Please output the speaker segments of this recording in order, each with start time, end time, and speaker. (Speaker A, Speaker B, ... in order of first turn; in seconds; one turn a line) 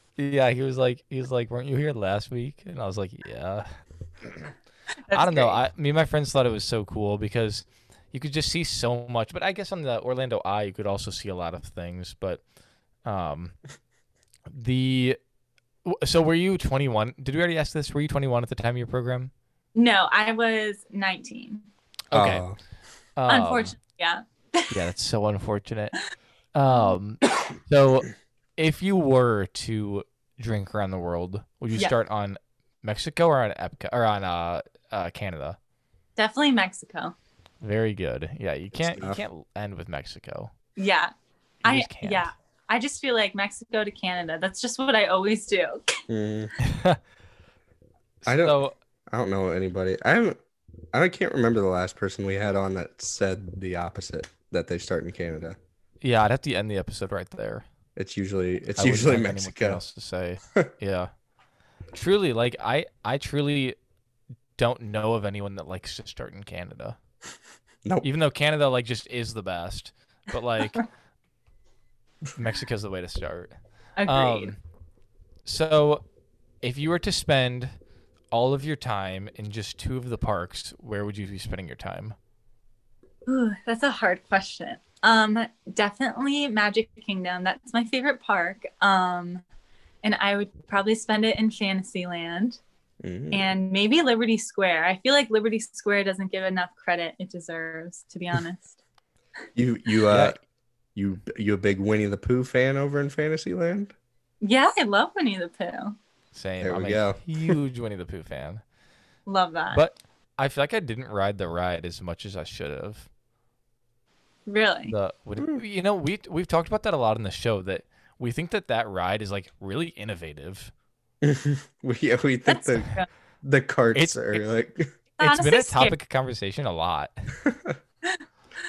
Speaker A: 0.2-3.7
Speaker B: 5.1-5.6
Speaker A: 5.1-12.4
Speaker A: 13.0-13.5
Speaker A: 14.5-15.2
Speaker A: 15.8-19.3
Speaker B: 19.7-21.6
Speaker A: 22.1-22.4
Speaker C: 22.1-22.6
Speaker A: 23.1-23.7
Speaker B: 23.3-24.7
Speaker A: 24.7-25.9
Speaker A: 26.5-35.6
Speaker B: 26.7-26.9
Speaker B: 36.2-37.1
Speaker A: 37.6-40.5
Speaker C: 38.9-39.2
Speaker B: 40.8-41.1
Speaker A: 41.6-42.3
Speaker B: 41.6-46.0
Speaker C: 46.1-46.5
Speaker A: 46.6-47.0
Speaker A: 48.2-48.7
Speaker C: 48.2-48.6
Speaker C: 49.1-50.4
Speaker C: 50.9-55.6
Speaker A: 56.0-57.6
Speaker C: 58.0-59.8
Speaker A: 58.8-61.1
Speaker A: 61.9-63.8
Speaker A: 64.6-67.0
Speaker A: 68.0-70.8
Speaker A: 72.3-73.5
Speaker B: 74.0-74.5
Speaker A: 74.1-74.6
Speaker A: 75.4-76.0
Speaker A: 76.6-77.7
Speaker A: 78.3-82.2
Speaker B: 83.3-89.4
Speaker B: 90.0-92.6
Speaker C: 93.0-93.5
Speaker B: 93.3-98.8
Speaker C: 99.5-100.4
Speaker A: 100.1-100.4
Speaker C: 100.9-103.9
Speaker B: 104.4-106.0
Speaker A: 106.3-108.6
Speaker C: 106.6-107.6
Speaker B: 109.2-109.8
Speaker A: 109.7-113.1
Speaker B: 114.5-114.9
Speaker A: 114.9-120.7
Speaker C: 121.2-124.8
Speaker B: 122.5-123.1
Speaker A: 123.9-124.5
Speaker B: 125.2-126.0
Speaker A: 125.2-127.3
Speaker C: 127.4-127.8